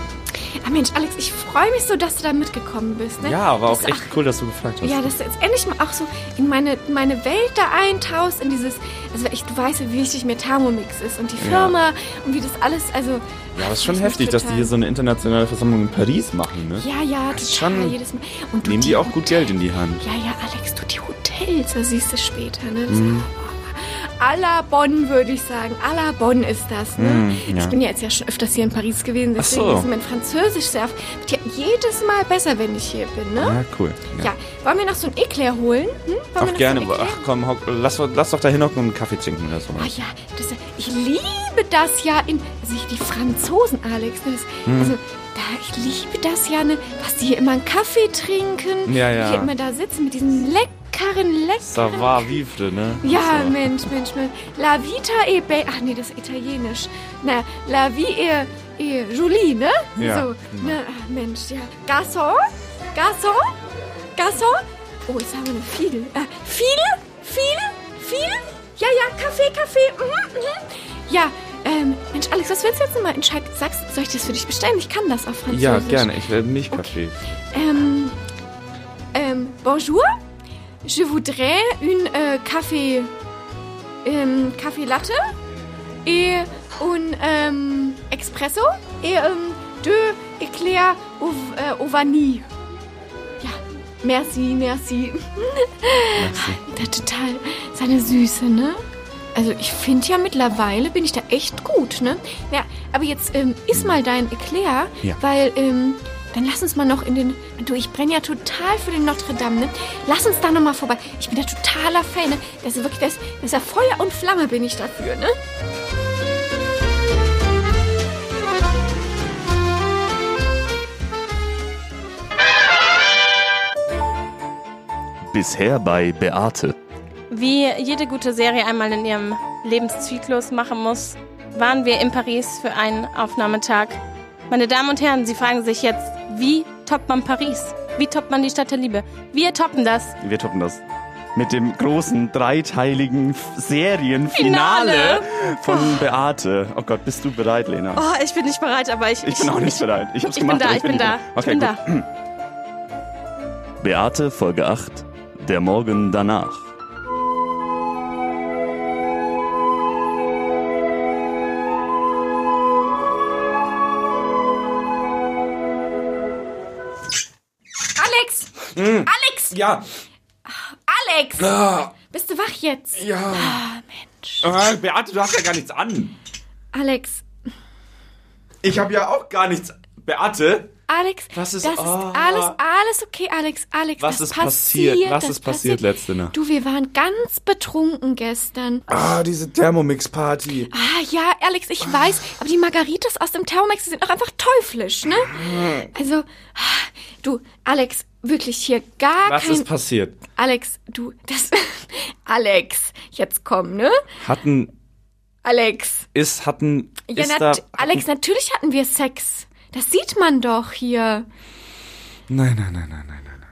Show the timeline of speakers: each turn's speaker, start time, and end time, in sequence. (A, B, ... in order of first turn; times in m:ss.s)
0:00.6-0:04.2 A
0:03.2-0:05.1 B
0:04.8-0:14.7 A
0:11.4-0:11.8 B
0:13.6-0:18.0 B
0:16.8-0:19.5 A
0:18.6-0:20.0 B
0:20.0-0:33.6 A
0:22.9-0:23.3 B
0:27.0-0:27.7 B
0:29.4-0:29.9 B
0:33.4-0:34.3 B
0:34.2-0:37.2 A
0:36.4-0:39.9 B
0:39.8-0:52.4 A
0:44.7-0:45.0 B
0:48.9-0:49.5 B
0:51.6-0:53.9 B
0:53.0-1:03.6 A
1:00.0-1:00.8 B
1:04.2-1:16.1 A
1:15.5-1:17.2 B
1:17.5-1:18.2 A
1:19.1-1:20.2 A
1:20.8-1:23.1 A
1:24.0-1:25.3 A
1:26.0-1:32.5 A
1:33.4-1:38.8 A
1:36.2-1:36.8 B
1:39.4-1:55.4 A
2:05.3-2:06.7 C
2:07.3-2:14.0 D
2:14.5-2:20.2 D
2:20.2-2:20.6 B
2:20.3-2:20.8 C
2:21.4-2:28.0 C
2:24.4-2:26.1 B
2:24.4-2:26.0 D
2:28.0-2:31.8 D
2:29.2-2:32.0 C
2:30.3-2:30.8 B
2:33.8-2:36.6 C
2:48.0-2:49.6 A
2:48.8-2:49.8 B
2:50.4-2:54.5 A
2:51.4-2:51.9 B
2:53.0-2:53.6 B
2:54.4-2:56.1 B
2:56.7-2:57.2 A
2:58.6-3:00.7 B
3:00.9-3:08.9 A
3:01.4-3:02.6 B
3:04.0-3:06.3 B
3:08.9-3:10.7 B
3:10.7-3:15.4 A
3:15.2-3:15.9 B
3:15.9-3:19.7 A
3:19.2-3:20.2 B
3:20.4-3:24.0 A
3:24.2-3:24.7 B
3:25.4-3:26.1 A
3:26.1-3:28.0 B
3:27.1-3:31.3 A
3:32.3-3:33.4 B